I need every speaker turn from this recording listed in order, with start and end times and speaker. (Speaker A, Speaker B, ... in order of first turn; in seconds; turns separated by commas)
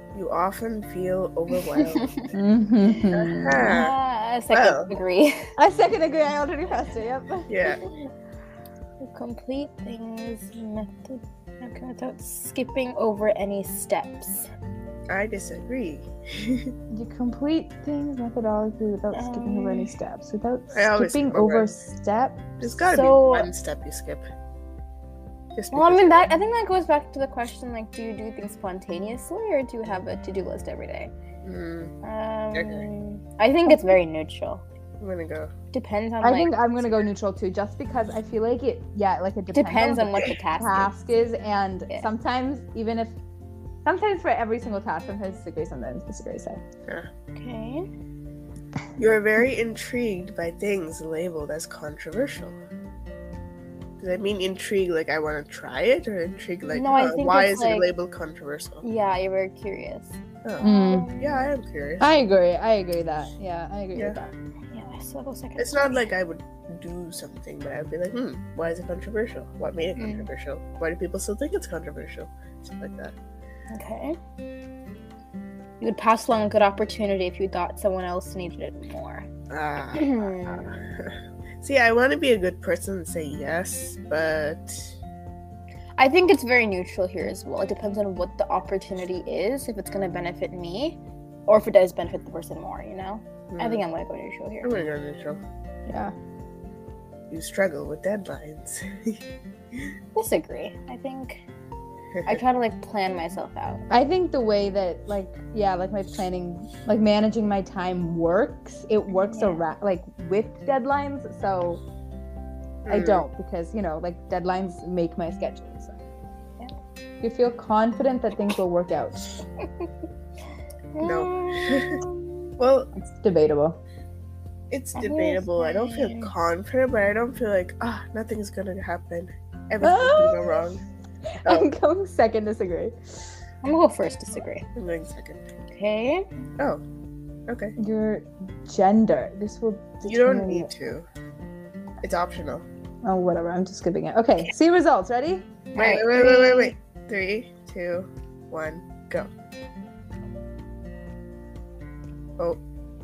Speaker A: 0.1-2.2, Speaker B: 1.8-2.2, Speaker C: 2.3-3.7, Speaker A: 3.1-4.0, Speaker B: 3.6-5.4, Speaker A: 4.5-4.9, Speaker C: 5.6-7.5, Speaker A: 7.5-7.8, Speaker B: 9.0-14.5, Speaker A: 15.1-16.7, Speaker C: 16.9-22.4, Speaker B: 19.1-19.9, Speaker A: 20.7-21.7, Speaker A: 22.6-24.3, Speaker B: 22.8-23.5, Speaker A: 25.6-26.3, Speaker B: 25.7-31.1, Speaker A: 31.4-31.9, Speaker B: 32.0-34.6, Speaker A: 32.5-32.9, Speaker C: 33.7-34.0, Speaker A: 35.0-35.5, Speaker B: 35.7-36.8, Speaker C: 36.2-43.2, Speaker B: 39.5-40.9, Speaker C: 43.9-46.6, Speaker B: 47.4-47.9, Speaker A: 49.0-52.6, Speaker A: 54.0-58.8, Speaker B: 56.7-57.9, Speaker B: 58.8-61.5, Speaker C: 60.6-61.1, Speaker A: 61.2-62.1, Speaker C: 62.0-64.3, Speaker B: 64.7-66.0, Speaker A: 65.6-73.2, Speaker B: 70.0-70.3, Speaker B: 73.7-74.2, Speaker B: 75.8-79.3, Speaker A: 79.5-85.0, Speaker B: 79.9-80.9, Speaker B: 86.0-94.7, Speaker A: 93.5-93.8, Speaker A: 94.6-95.4, Speaker C: 95.9-96.1, Speaker A: 97.3-99.2, Speaker B: 100.2-101.4, Speaker B: 102.3-103.9, Speaker C: 103.9-111.8, Speaker B: 109.1-109.7, Speaker A: 112.8-113.2, Speaker C: 112.9-116.0, Speaker C: 117.2-119.3, Speaker B: 120.9-122.5, Speaker A: 121.0-122.0, Speaker A: 122.6-122.9, Speaker C: 123.0-123.8, Speaker A: 124.7-130.8, Speaker B: 125.0-126.3, Speaker C: 129.8-130.6, Speaker C: 131.4-133.3, Speaker B: 133.6-134.7, Speaker A: 134.8-135.5, Speaker B: 135.7-136.2, Speaker A: 136.6-136.8, Speaker A: 137.5-137.8, Speaker C: 137.8-140.7, Speaker A: 140.1-141.1, Speaker A: 142.0-142.7, Speaker C: 143.0-145.5, Speaker B: 145.7-146.7, Speaker A: 145.8-149.3